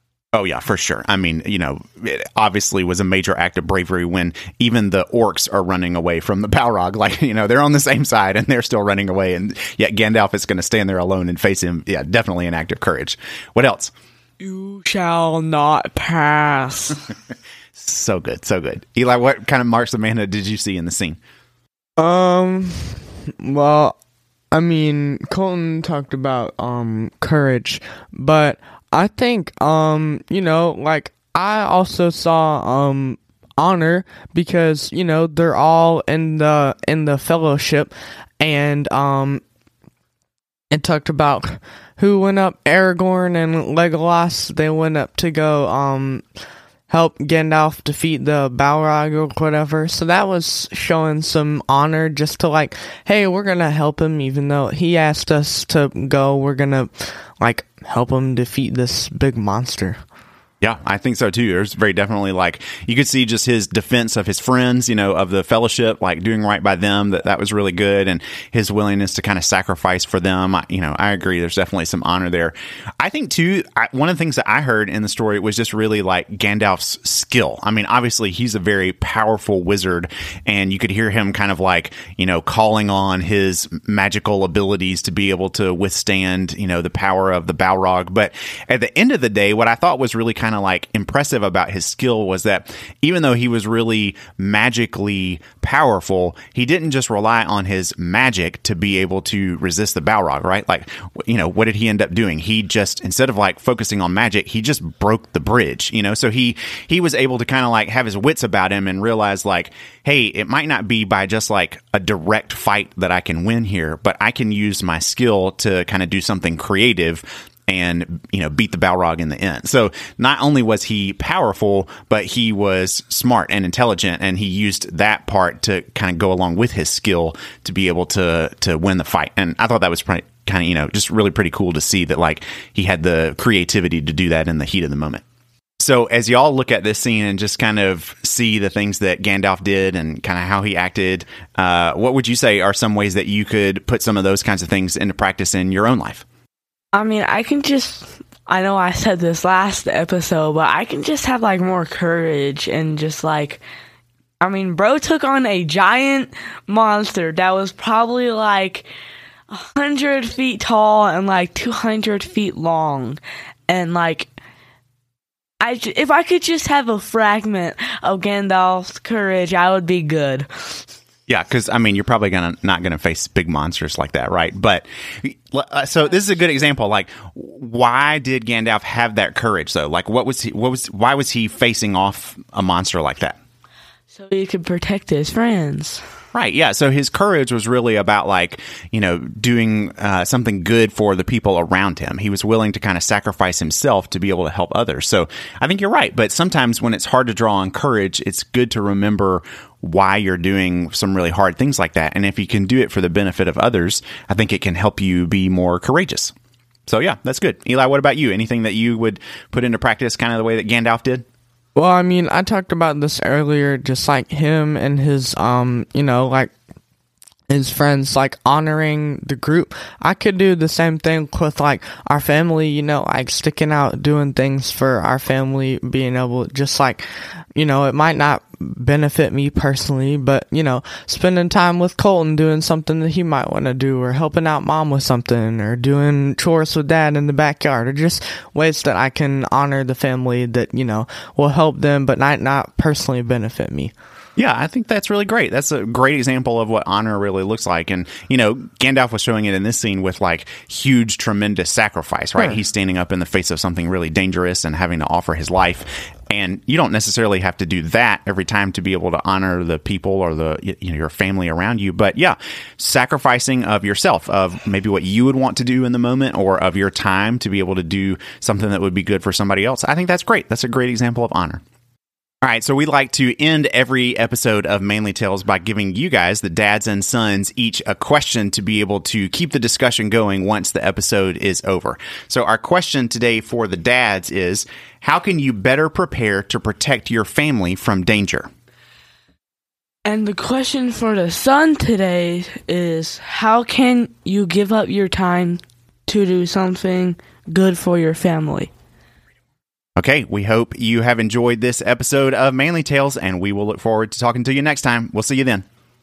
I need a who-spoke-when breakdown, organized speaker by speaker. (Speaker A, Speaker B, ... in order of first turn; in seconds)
Speaker A: 0.3-13.9, 17.7-21.2, 60.6-135.2, 135.8-146.2, 171.3-183.4, 186.3-206.3, 206.9-211.2, 244.3-271.6, 272.4-288.5, 300.0-305.6
Speaker B: 14.4-17.0, 22.0-23.9, 24.5-39.4, 40.7-46.2, 46.9-60.0, 211.7-216.5, 217.5-243.9
Speaker C: 146.9-153.6, 154.4-158.9, 159.5-164.3, 165.6-170.8, 184.1-186.0, 290.1-298.7